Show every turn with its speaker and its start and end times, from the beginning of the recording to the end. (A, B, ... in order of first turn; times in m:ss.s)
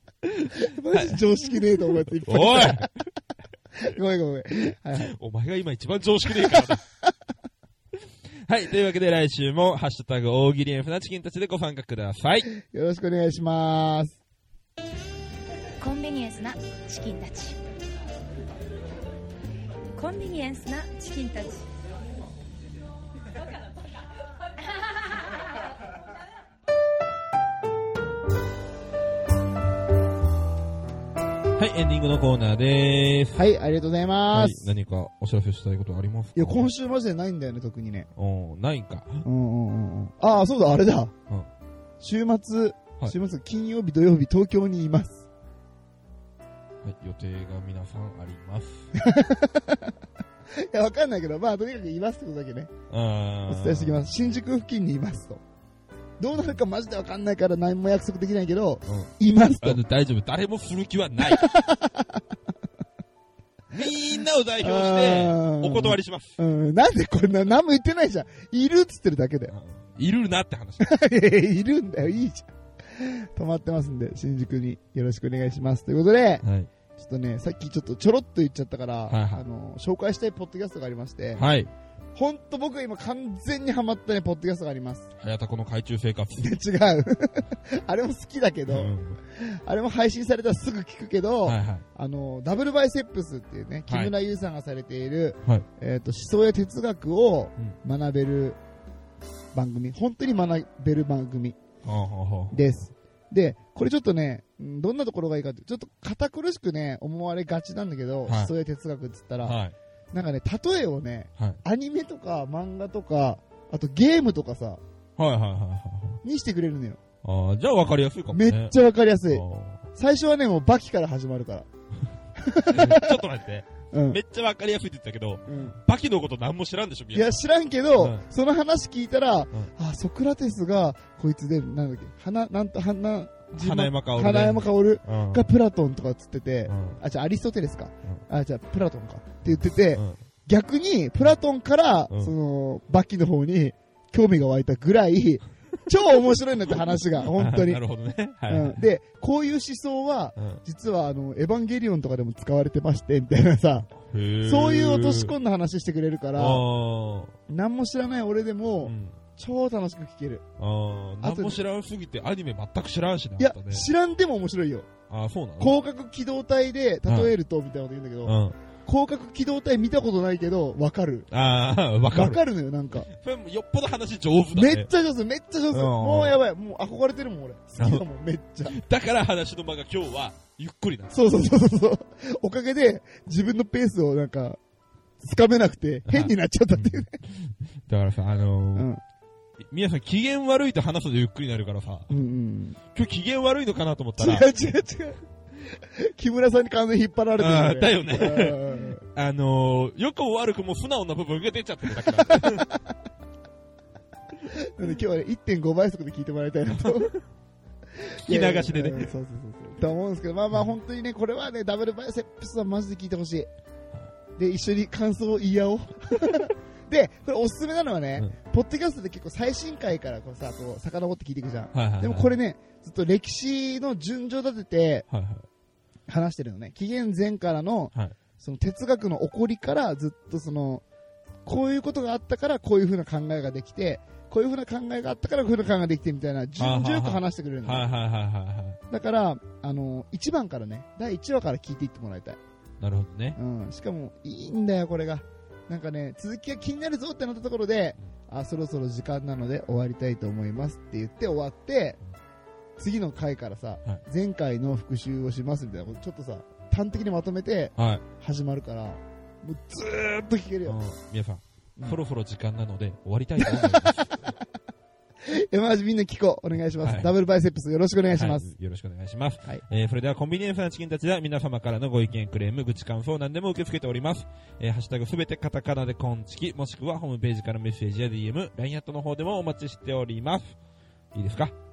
0:00.2-0:01.2 A
0:00.6-0:02.9 B
0:02.2-0:03.0 A
0:03.8-0:05.1 B
0:05.0-0:06.8 A
0:06.3-0:06.8 B
0:08.5-0:12.5 A
0:12.6-0:14.2 B
0:15.8-0:17.6 C
0:20.0-0:21.7 C
0:31.6-0:33.4 A
0:33.4-0:34.7 B
0:34.3-0:36.7 A
0:36.4-0:38.1 B
0:38.2-0:39.3 A
0:39.2-0:41.1 B
0:42.0-0:45.3 B
0:46.8-0:48.9 A
0:49.0-0:49.9 B
0:50.5-0:52.7 B
0:52.9-0:54.1 A
0:53.5-0:55.4 B
0:56.2-0:59.8 B
0:58.9-1:01.5 A
1:01.2-1:02.2 B
1:03.7-1:06.4 A
1:04.6-1:09.5 B
1:09.5-1:10.9 A
1:10.8-1:16.4 B
1:16.4-1:16.7 A
1:17.0-1:21.4 B
1:19.1-1:19.4 A
1:21.4-1:21.7 A
1:22.2-1:25.1 B
1:25.2-1:26.6 A
1:26.4-1:38.6 B
1:28.7-1:29.2 A
1:31.4-1:31.8 A
1:33.9-1:34.1 A
1:39.5-1:41.6 B
1:41.8-1:42.6 A
1:42.5-1:49.6 B
1:48.3-1:48.5 A
1:49.4-1:49.8 A
1:50.1-1:54.8 B
1:55.2-1:56.2 A
1:56.2-1:57.0 B
1:57.2-1:58.8 A
1:58.3-2:01.7 B
1:59.3-1:59.8 A
2:02.4-2:03.2 B
2:02.7-2:07.4 A
2:03.9-2:04.2 B
2:05.5-2:05.8 B
2:07.1-2:27.8 B
2:08.0-2:08.3 A
2:13.5-2:15.5 A
2:16.7-2:17.0 A
2:19.5-2:20.2 A
2:27.3-2:28.8 A
2:28.5-2:33.9 B
2:30.4-2:30.6 A
2:34.1-2:35.4 A
2:34.4-2:36.6 B
2:36.4-2:37.3 A
2:37.5-2:40.4 B
2:38.8-2:39.2 A
2:40.6-2:43.9 A
2:41.2-2:41.6 B
2:43.4-2:44.9 B
2:45.1-2:45.8 A
2:45.6-2:51.3 B
2:47.1-2:47.3 A
2:48.2-2:48.6 A
2:51.3-2:52.4 A
2:52.1-2:53.1 B
2:53.1-2:54.9 A
2:54.5-2:58.8 B
2:55.7-2:56.4 A
2:57.8-2:58.0 A
2:58.7-3:01.2 A
3:01.1-3:04.6 B
3:05.2-3:07.1 B
3:06.1-3:08.9 A
3:08.8-3:09.0 B
3:09.7-3:12.2 A
3:12.1-3:12.8 B
3:12.9-3:14.5 A
3:14.2-3:19.0 B
3:17.4-3:22.7 A
3:22.2-3:22.8 B
3:24.5-3:27.1 B
3:28.0-3:33.5 B
3:28.2-3:29.1 A
3:34.4-3:45.1 B
3:41.7-3:42.4 A
3:45.1-3:45.5 A
3:46.1-3:50.8 B
3:51.4-3:57.9 B
3:56.6-3:58.8 A
3:58.9-4:02.4 B
4:02.8-4:03.4 A
4:03.4-4:12.0 B
4:12.8-4:20.8 B
4:17.8-4:18.0 A
4:20.6-4:24.2 A
4:23.4-4:23.9 B
4:25.2-4:28.5 B
4:26.8-4:27.1 A
4:28.1-4:40.5 A
4:41.1-4:41.5 A